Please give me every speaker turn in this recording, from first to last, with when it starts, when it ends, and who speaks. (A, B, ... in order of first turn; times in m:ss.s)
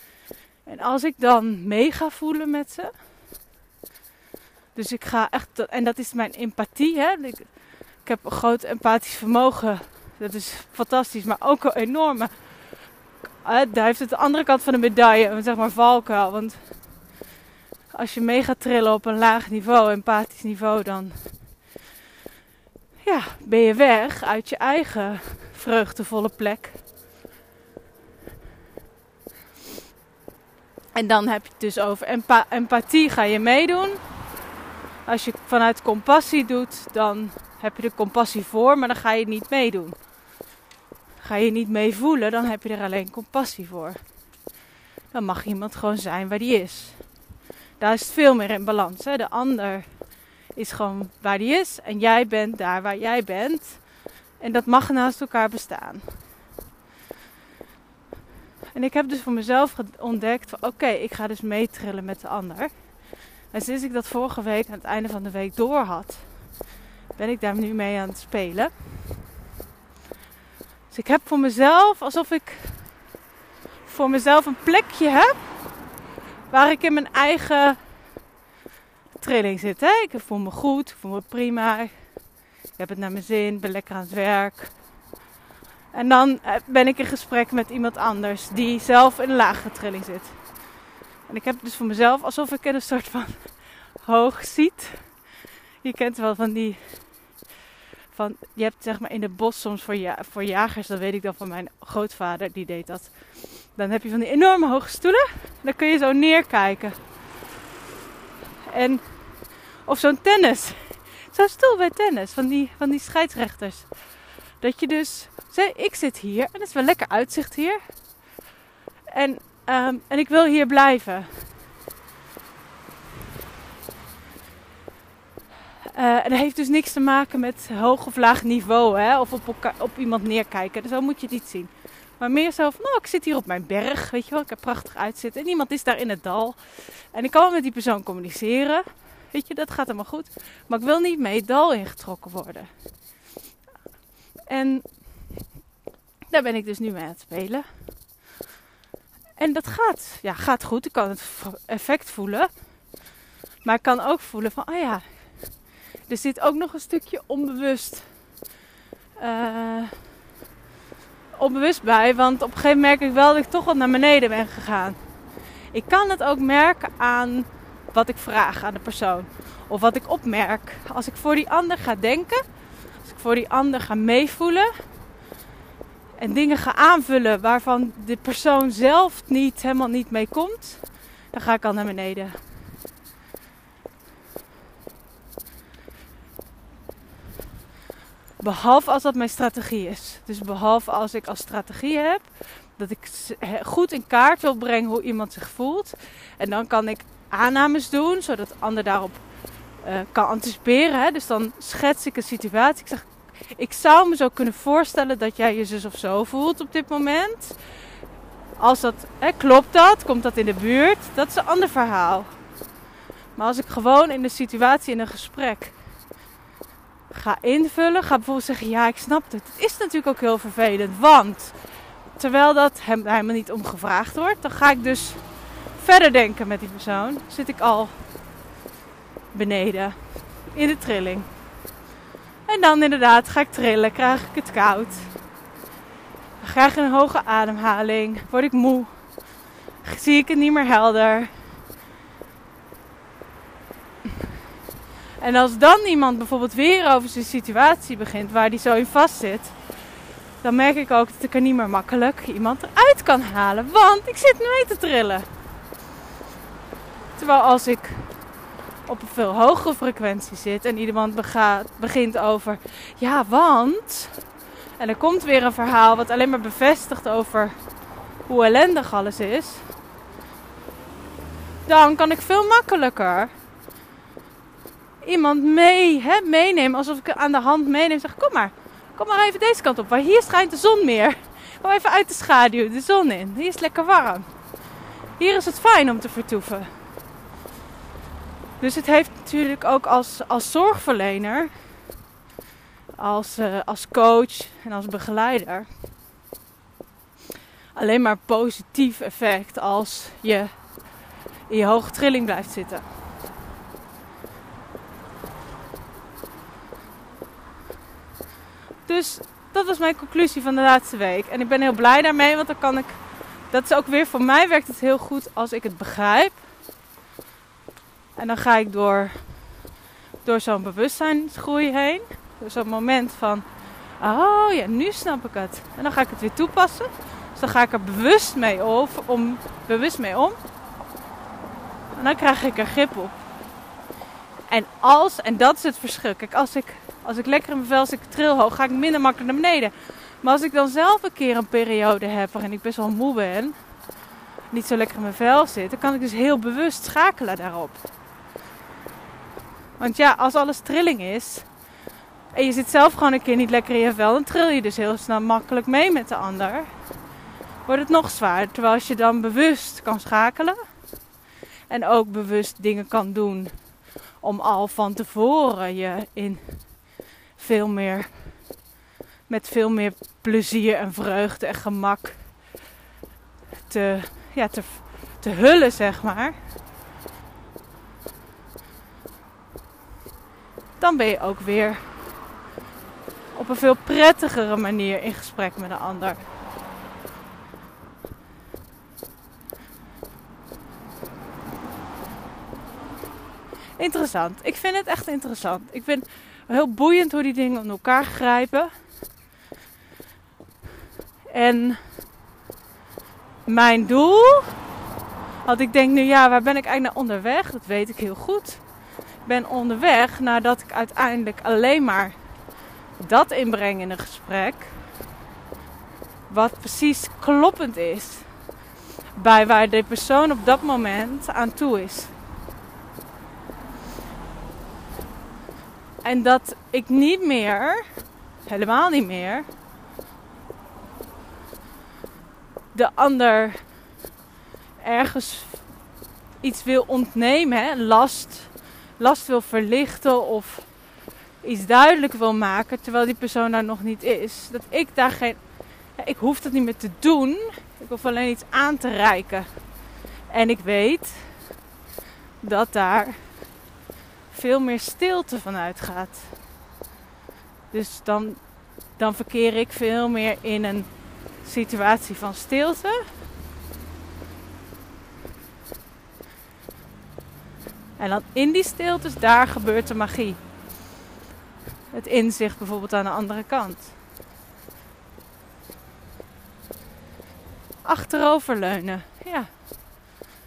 0:00.6-0:02.9 A
0:04.7-0:12.3 A
0:13.4-0:16.9 A
0:17.9-0:21.5 A
0:23.0-0:26.8 A
0:30.9-0:34.0 A
0:35.0-0:40.0 A
0:41.2-0:44.0 A
0:45.1-0:47.2 A
0:47.8-0:56.2 A
0:58.7-1:02.9 A
1:03.5-1:06.5 A
1:07.1-1:08.7 A
1:10.9-1:13.0 A
1:13.8-1:15.4 A
1:16.5-1:17.8 A
1:19.2-1:21.9 A
1:22.8-1:24.8 A
1:25.9-1:30.6 A
1:31.3-1:35.2 A
1:35.8-1:37.4 A
1:38.1-1:47.0 A
1:48.6-1:57.8 A
1:59.1-2:01.4 A
2:05.9-2:22.7 A
2:24.5-2:25.4 A
2:26.3-2:27.6 A
2:29.4-2:32.5 A
2:33.6-2:35.2 A
2:36.1-2:38.1 A
2:39.2-2:40.0 A
2:41.3-2:45.0 A
2:45.7-2:52.4 A
2:53.0-2:54.7 A
2:56.2-3:02.4 A
3:08.4-3:19.2 A
3:19.8-3:27.6 A
3:28.6-3:32.3 A
3:33.4-3:35.8 A
3:37.1-3:41.6 A
3:42.1-3:45.2 A
3:45.7-3:47.9 A
3:49.3-3:50.0 A
3:50.5-3:51.3 A
3:52.5-3:55.2 A
3:56.4-3:59.0 A
3:59.8-4:01.3 A
4:05.2-4:09.6 A
4:10.4-4:15.3 A
4:17.1-4:18.2 A
4:18.8-4:24.2 A
4:24.8-4:27.5 A
4:28.2-4:29.7 A
4:31.6-4:33.3 A
4:35.0-4:44.3 A
4:45.2-4:46.7 A
4:48.6-4:51.6 A
4:53.0-4:55.7 A
4:57.7-5:02.8 A
5:08.8-5:13.0 A
5:13.5-5:16.5 A
5:18.2-5:19.4 A
5:20.2-5:23.4 A
5:24.0-5:30.4 A
5:31.9-5:33.2 A
5:34.5-5:43.6 A
5:44.5-5:47.8 A
5:49.8-5:51.5 A
5:52.3-5:56.7 A
5:57.6-6:00.6 A
6:01.7-6:03.5 A
6:04.2-6:08.5 A
6:09.3-6:12.5 A
6:13.7-6:16.3 A
6:20.8-6:22.1 A
6:23.3-6:26.2 A
6:33.8-6:38.7 A
6:41.3-6:41.8 A
6:43.4-6:44.6 A
6:45.4-6:48.6 A
6:49.2-6:52.2 A
6:53.0-6:54.8 A
6:56.3-6:58.3 A
6:59.2-7:02.1 A
7:06.0-7:07.8 A
7:08.4-7:09.4 A
7:12.7-7:13.6 A
7:14.8-7:15.7 A
7:16.4-7:20.8 A
7:21.4-7:25.4 A
7:26.0-7:29.5 A
7:30.3-7:31.6 A
7:32.4-7:33.5 A
7:34.3-7:36.4 A
7:37.7-7:43.2 A
7:48.0-7:50.4 A
7:51.9-7:53.9 A
7:57.8-7:59.5 A